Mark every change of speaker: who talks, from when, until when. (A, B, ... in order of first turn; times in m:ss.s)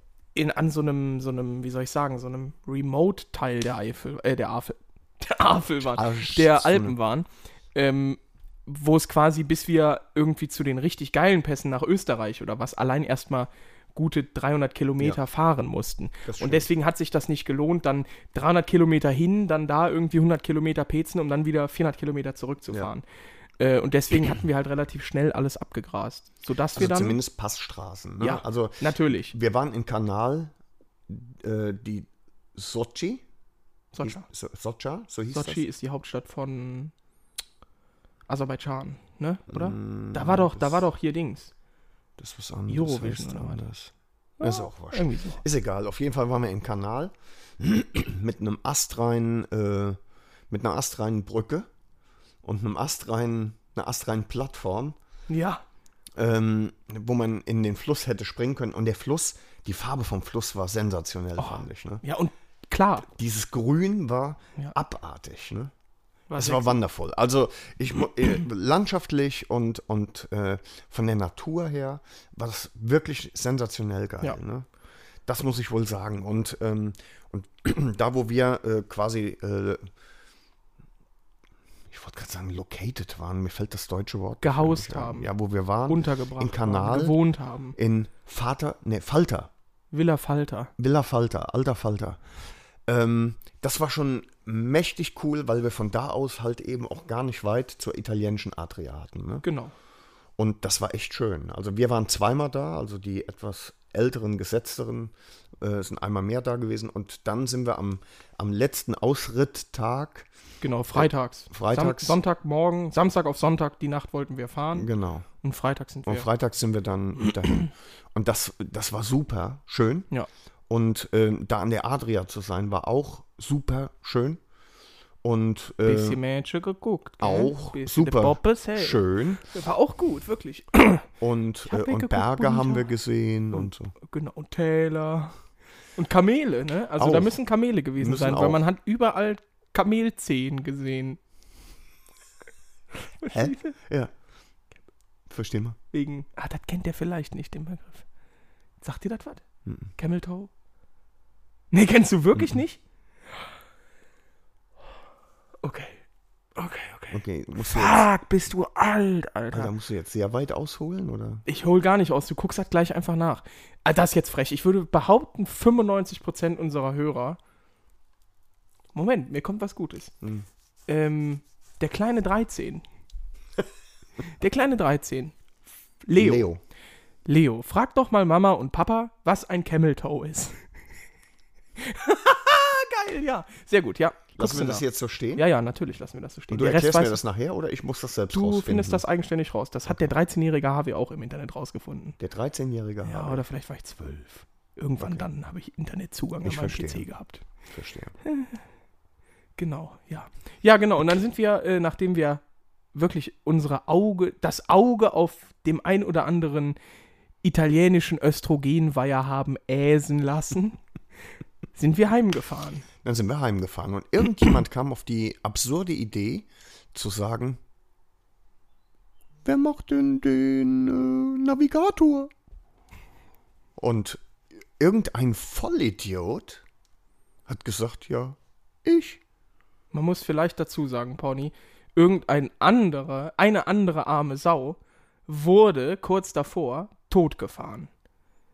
0:00.4-0:23.0 A
0:05.8-0:07.0 B
0:16.2-0:16.7 B
0:23.6-0:27.2 A
0:26.8-0:30.5 B
0:28.2-0:29.3 A
0:31.1-0:33.2 B
0:33.9-0:34.3 A
0:34.0-0:35.6 B
0:35.3-0:36.9 A
0:38.3-0:41.5 A
0:39.5-0:40.8 B
0:42.2-0:50.0 B
0:42.7-0:43.6 A
0:44.4-0:45.4 A
0:50.5-0:51.7 B
0:52.4-0:55.0 B
0:55.3-0:55.6 A
0:56.2-1:02.0 B
1:01.4-1:03.1 A
1:03.1-1:05.7 B
1:06.3-1:06.8 A
1:06.4-1:14.7 B
1:15.3-1:19.9 B
1:21.9-1:27.2 B
1:24.4-1:25.3 A
1:25.9-1:27.8 A
1:27.8-1:29.5 B
1:29.9-1:30.7 A
1:30.8-1:32.2 B
1:32.9-1:39.4 B
1:39.4-1:39.7 A
1:40.4-1:50.3 B
1:50.6-1:54.9 A
1:50.9-1:52.2 B
1:54.7-1:55.3 B
1:55.4-1:56.3 A
1:56.0-2:00.1 B
2:00.7-2:04.4 B
2:05.2-2:06.2 B
2:05.8-2:11.1 A
2:07.2-2:09.4 B
2:11.2-2:13.9 B
2:11.7-2:12.9 A
2:13.5-2:15.4 A
2:16.0-2:21.2 A
2:17.0-2:17.4 B
2:18.0-2:18.6 B
2:23.2-2:23.8 A
2:23.3-2:24.1 B
2:25.3-2:25.8 B
2:25.9-2:28.0 A
2:28.8-2:29.4 A
2:29.7-2:29.9 B
2:30.0-2:30.5 A
2:31.7-2:32.8 A
2:35.6-2:36.0 A
2:36.6-2:39.7 A
2:37.1-2:38.0 B
2:39.5-2:41.4 B
2:41.5-2:47.4 A
2:48.9-2:50.1 A
2:50.2-2:50.5 B
2:50.9-2:52.8 A
2:54.4-2:55.3 A
2:56.0-2:56.5 A
2:56.2-2:56.6 B
2:57.3-3:00.6 A
3:01.8-3:07.2 A
3:04.4-3:05.5 B
3:06.5-3:09.0 B
3:08.3-3:12.2 A
3:12.2-3:13.4 B
3:13.0-3:17.4 A
3:15.0-3:15.3 B
3:16.4-3:17.1 B
3:17.7-3:18.1 B
3:18.2-3:18.6 A
3:19.6-3:22.4 A
3:22.9-3:26.8 A
3:27.4-3:30.8 A
3:31.8-3:32.8 A
3:33.0-3:37.6 B
3:39.4-3:42.3 B
3:43.8-3:44.2 B
3:44.8-3:46.6 B
3:47.5-3:49.2 B
3:49.9-3:57.9 A